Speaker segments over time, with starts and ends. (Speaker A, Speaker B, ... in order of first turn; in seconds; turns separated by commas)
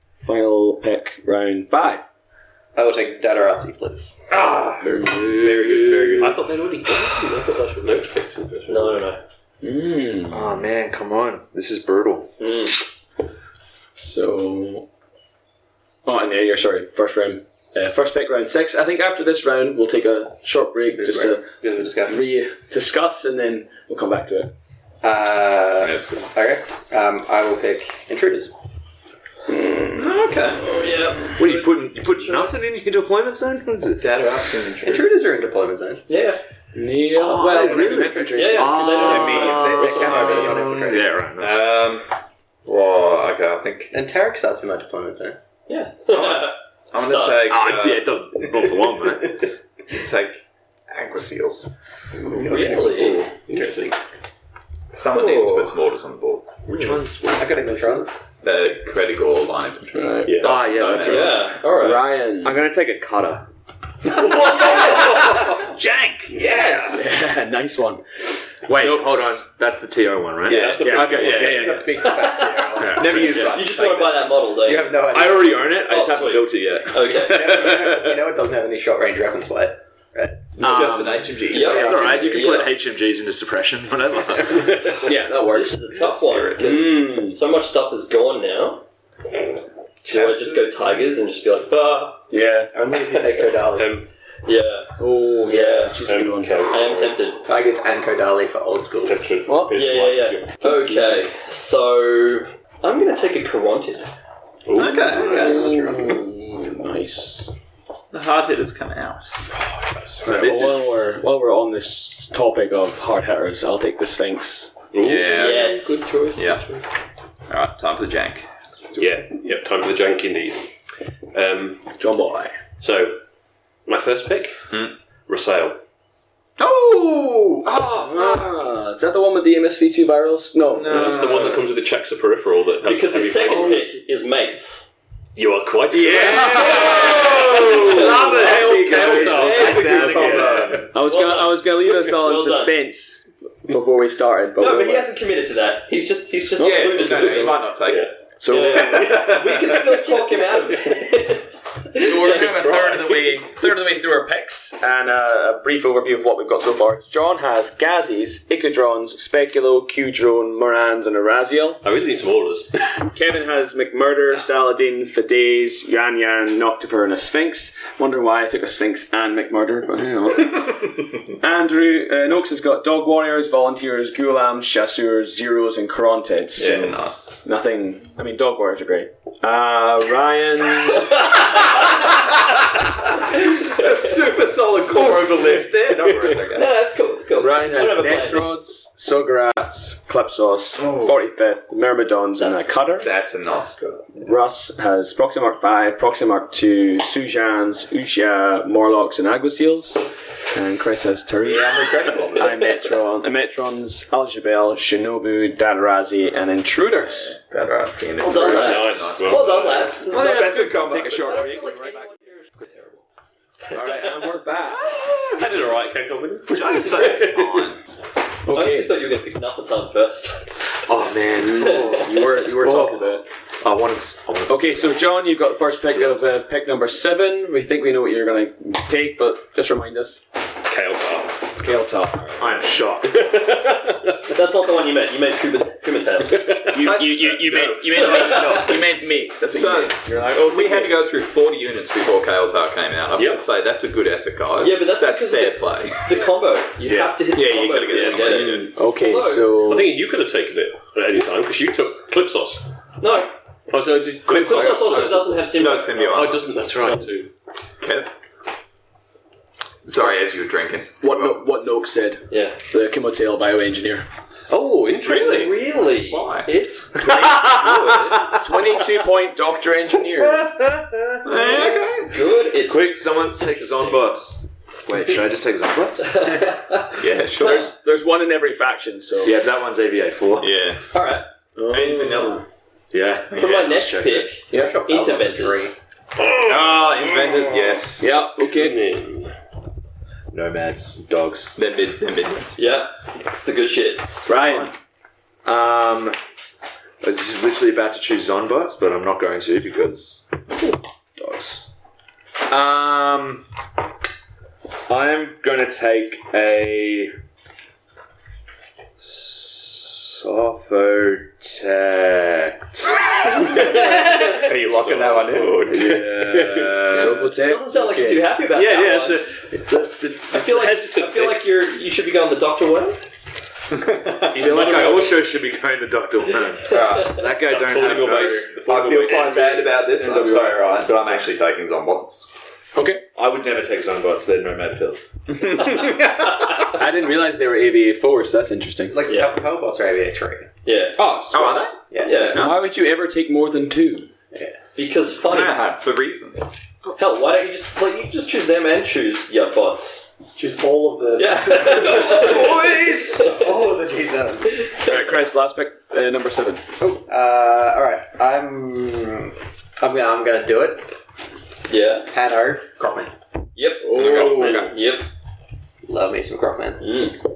Speaker A: 0.2-2.0, Speaker B: 2.8-4.2, Speaker C: 4.3-6.5, Speaker A: 4.8-5.6, Speaker D: 5.1-6.1, Speaker E: 6.1-9.1, Speaker F: 8.7-9.2, Speaker A: 9.6-10.7, Speaker D: 10.3-12.3, Speaker F: 12.4-12.8, Speaker A: 13.9-14.9, Speaker A: 16.0-24.5, Speaker B: 21.0-21.4, Speaker E: 21.6-22.2, Speaker B: 25.0-28.5, Speaker C: 25.8-26.3, Speaker A: 29.5-30.1, Speaker C: 29.9-30.8, Speaker F: 30.6-32.6, Speaker D: 31.3-34.5, Speaker C: 34.0-35.2, Speaker B: 34.8-36.0, Speaker F: 36.1-36.4, Speaker A: 36.8-39.0, Speaker D: 37.1-41.7, Speaker B: 37.5-38.0, Speaker F: 38.2-40.7, Speaker C: 39.1-40.1, Speaker B: 39.1-41.2, Speaker C: 41.4-42.0, Speaker C: 42.6-43.9, Speaker B: 43.9-45.4, Speaker F: 45.7-47.6, Speaker C: 46.1-48.3, Speaker D: 47.5-49.4, Speaker C: 49.9-51.7, Speaker B: 52.1-54.0, Speaker F: 52.3-53.3, Speaker C: 54.9-56.7, Speaker F: 55.1-55.8, Speaker D: 56.6-58.0, Speaker B: 57.2-58.2, Speaker C: 58.4-61.5, Speaker A: 59.9-60.4, Speaker E: 60.2-60.6, Speaker D: 60.4-63.5, Speaker F: 61.0-62.1, Speaker A: 61.8-62.6, Speaker D: 64.4-66.9, Speaker C: 64.5-67.1, Speaker A: 66.9-68.0, Speaker D: 68.7-72.0, Speaker A: 68.7-69.4, Speaker E: 70.5-71.7, Speaker C: 70.5-71.6, Speaker A: 70.9-71.5, Speaker B: 71.1-75.9, Speaker F: 72.0-75.1, Speaker D: 72.8-73.6, Speaker C: 72.9-74.0, Speaker D: 75.0-78.1, Speaker F: 75.8-77.7, Speaker B: 77.0-81.1, Speaker C: 80.6-82.1, Speaker A: 80.6-82.5, Speaker F: 81.5-82.7, Speaker D: 81.5-84.9, Speaker A: 85.0-85.8, Speaker F: 85.3-88.8, Speaker C: 85.9-86.6, Speaker A: 86.6-87.4, Speaker C: 90.0-91.0, Speaker F: 90.1-92.1, Speaker A: 92.3-92.7, Speaker B: 92.7-94.0, Speaker E: 93.7-94.0, Speaker F: 94.4-96.0, Speaker A: 95.0-96.7, Speaker E: 96.0-97.2, Speaker F: 96.7-97.5, Speaker B: 97.4-99.2, Speaker E: 99.0-100.5, Speaker A: 99.5-99.8, Speaker F: 99.7-104.1, Speaker A: 100.6-101.3, Speaker E: 104.7-105.7, Speaker C: 104.7-105.8, Speaker B: 105.1-106.2, Speaker A: 105.2-107.5, Speaker C: 108.1-109.4, Speaker E: 109.9-110.7, Speaker C: 110.2-111.0, Speaker A: 110.2-114.8, Speaker E: 114.9-116.4, Speaker C: 115.0-116.6, Speaker F: 115.3-116.5, Speaker C: 117.5-119.2, Speaker E: 119.0-120.8, Speaker E: 121.3-121.9, Speaker A: 122.0-122.5, Speaker E: 122.8-123.2, Speaker E: 123.9-124.8, Speaker E: 125.3-125.8, Speaker C: 126.6-127.8, Speaker D: 127.6-128.4, Speaker A: 128.0-131.4, Speaker C: 130.7-131.6, Speaker E: 130.8-133.9, Speaker F: 132.8-134.9, Speaker E: 135.3-140.8, Speaker C: 135.9-137.9, Speaker D: 136.2-140.9, Speaker F: 136.5-140.4, Speaker A: 137.6-140.3, Speaker C: 139.4-140.9, Speaker A: 140.9-145.1, Speaker F: 141.0-142.8, Speaker F: 144.6-147.7, Speaker C: 146.5-148.1, Speaker E: 147.8-148.1, Speaker A: 148.4-149.2, Speaker F: 148.5-152.7, Speaker C: 148.6-150.0, Speaker E: 148.8-150.6, Speaker A: 151.9-161.8, Speaker E: 152.1-153.5, Speaker E: 161.8-162.9, Speaker A: 163.0-181.2, Speaker C: 176.6-177.3, Speaker C: 183.1-186.8, Speaker F: 186.4-188.6, Speaker A: 187.4-193.1, Speaker C: 190.8-191.2, Speaker C: 193.0-194.2, Speaker A: 194.2-207.4, Speaker C: 201.4-202.8, Speaker C: 207.1-211.8, Speaker F: 208.2-213.0, Speaker E: 208.3-209.8, Speaker A: 210.1-212.0, Speaker A: 213.7-214.9, Speaker F: 213.7-214.1, Speaker C: 214.7-215.5, Speaker E: 215.3-217.7, Speaker C: 216.5-217.8, Speaker A: 218.4-219.0, Speaker F: 218.5-220.5, Speaker D: 220.9-226.2, Speaker A: 221.4-223.2, Speaker A: 224.5-230.2, Speaker E: 230.6-231.5, Speaker A: 231.6-232.7, Speaker D: 232.4-233.2, Speaker E: 233.0-234.3, Speaker F: 234.2-236.6, Speaker E: 236.3-236.8, Speaker A: 236.7-241.1, Speaker C: 236.7-238.8, Speaker F: 237.9-238.9, Speaker C: 239.3-246.3, Speaker E: 243.2-243.4, Speaker F: 244.6-249.6, Speaker D: 246.8-247.2, Speaker C: 247.3-248.7, Speaker E: 247.9-248.7, Speaker A: 248.7-249.9, Speaker E: 249.4-252.6, Speaker F: 253.0-253.3, Speaker E: 253.7-255.2, Speaker F: 254.3-256.4, Speaker C: 254.3-256.5, Speaker E: 256.1-257.3, Speaker C: 257.8-258.1, Speaker C: 259.9-261.4, Speaker A: 261.0-264.1, Speaker F: 262.3-262.6, Speaker E: 264.5-265.6, Speaker C: 265.0-266.6, Speaker F: 265.1-268.4, Speaker A: 268.4-270.5, Speaker C: 271.2-272.1, Speaker F: 271.3-274.1, Speaker D: 272.6-276.3, Speaker F: 276.0-277.7, Speaker C: 276.9-277.7, Speaker A: 277.4-279.4, Speaker D: 279.2-280.6, Speaker C: 280.4-280.8, Speaker F: 280.9-281.2, Speaker A: 281.6-282.4, Speaker C: 281.7-282.4, Speaker D: 282.9-284.3, Speaker C: 283.3-283.8, Speaker F: 283.3-285.7, Speaker B: 284.5-285.7, Speaker A: 284.5-284.8, Speaker E: 286.2-289.3, Speaker C: 286.3-288.1, Speaker A: 288.0-288.8, Speaker D: 290.3-291.6, Speaker C: 291.6-292.6, Speaker F: 292.6-294.1, Speaker A: 294.2-294.7, Speaker C: 294.3-294.7, Speaker D: 295.4-296.2, Speaker D: 297.0-300.4, Speaker D: 302.5-303.4, Speaker D: 304.9-307.1, Speaker D: 309.0-312.9, Speaker F: 313.5-314.4, Speaker C: 313.5-316.0, Speaker E: 315.3-317.0, Speaker D: 315.3-317.4, Speaker A: 315.7-316.2, Speaker A: 316.9-318.4, Speaker F: 317.1-319.3, Speaker D: 318.5-320.9, Speaker F: 320.3-323.1, Speaker E: 320.6-321.4, Speaker C: 323.7-324.6, Speaker E: 324.3-325.2, Speaker D: 324.4-328.6, Speaker F: 326.6-327.2, Speaker C: 326.7-327.2, Speaker E: 327.4-329.6, Speaker C: 328.5-332.2, Speaker D: 329.9-331.3, Speaker A: 332.7-333.0, Speaker D: 333.1-335.1, Speaker C: 335.3-336.7, Speaker F: 335.6-336.6, Speaker A: 336.7-339.0, Speaker B: 338.9-340.5, Speaker F: 339.1-339.4, Speaker F: 340.6-341.0, Speaker D: 340.9-341.6, Speaker C: 341.3-341.8, Speaker B: 341.9-342.4, Speaker F: 342.0-342.5, Speaker A: 342.1-344.1, Speaker F: 344.7-345.7, Speaker C: 345.2-346.6, Speaker F: 346.9-350.1, Speaker B: 350.4-354.8, Speaker F: 351.2-353.5, Speaker D: 351.6-353.3, Speaker F: 354.7-354.9, Speaker A: 354.8-356.8, Speaker B: 356.8-360.9, Speaker F: 361.7-362.1, Speaker B: 362.1-363.1, Speaker F: 363.6-365.1, Speaker A: 363.9-364.7, Speaker C: 363.9-364.7, Speaker B: 365.8-367.1, Speaker F: 366.8-367.2